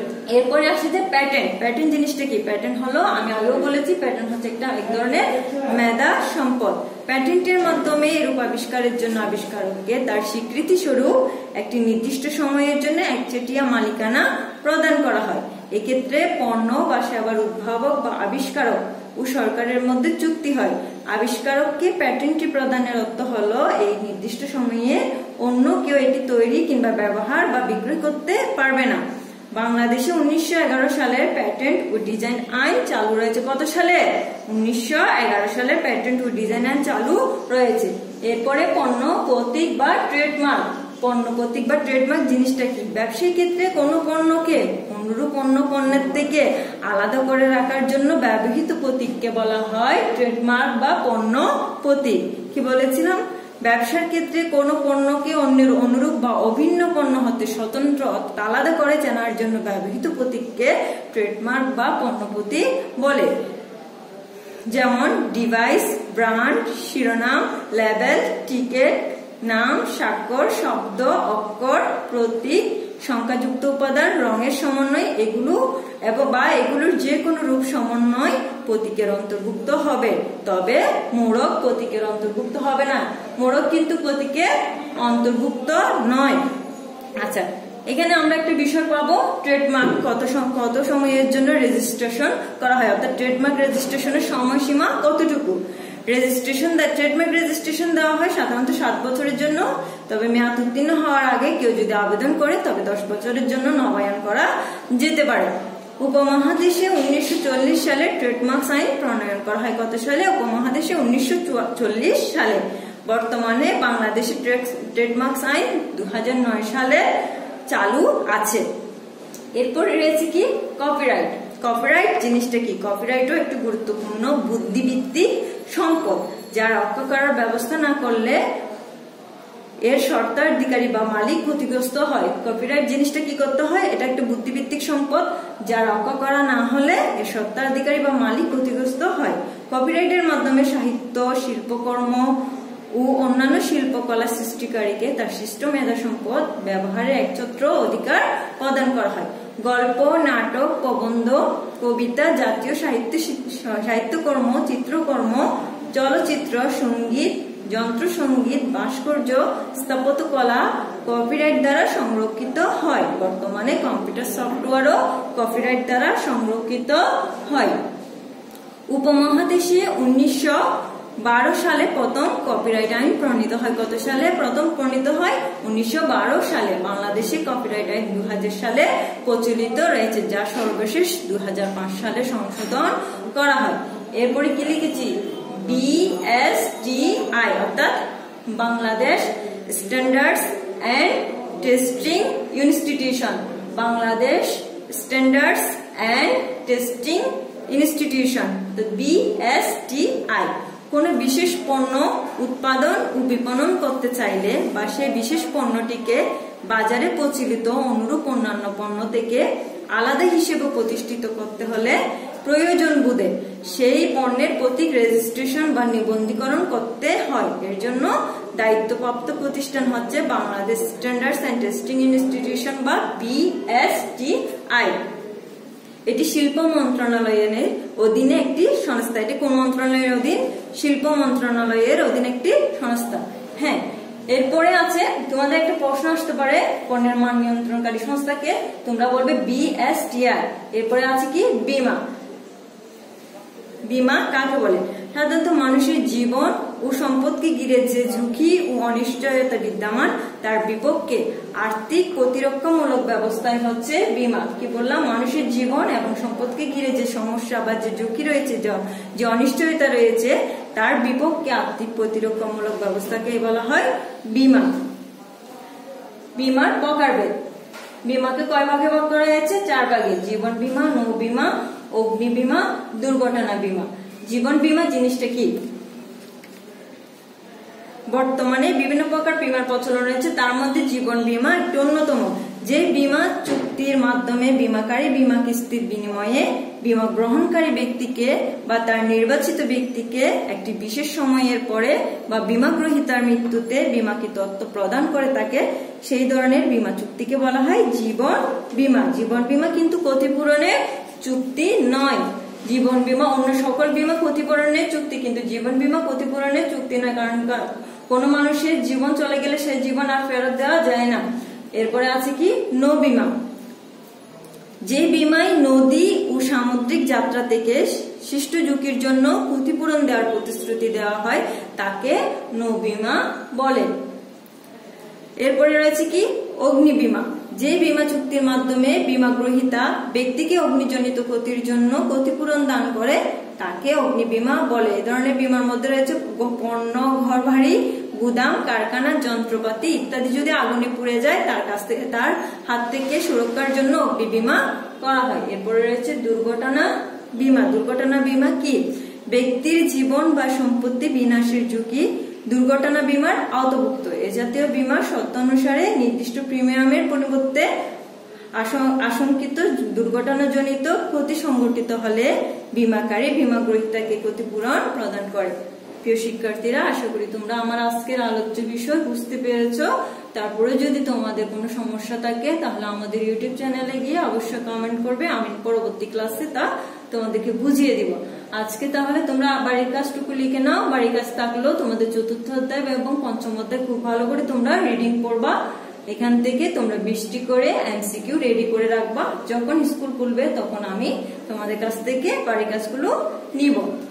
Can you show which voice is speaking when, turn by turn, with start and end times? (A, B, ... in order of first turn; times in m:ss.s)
0:00.3-0:29.0 A
0:29.5-1:03.3 A
1:04.7-1:26.4 A
1:27.2-1:57.1 A
1:57.7-1:58.6 A
1:59.6-2:08.4 A
2:09.8-2:22.3 A
2:22.9-2:47.8 A
2:48.9-3:45.0 A
3:46.1-4:02.0 A
4:03.9-4:24.7 A
4:26.4-4:27.3 A
4:28.0-4:35.6 A
4:38.1-5:11.2 A
5:11.8-5:13.3 A
5:14.8-5:23.9 A
5:25.4-5:57.7 A
5:58.6-6:25.6 A
6:26.1-6:33.9 A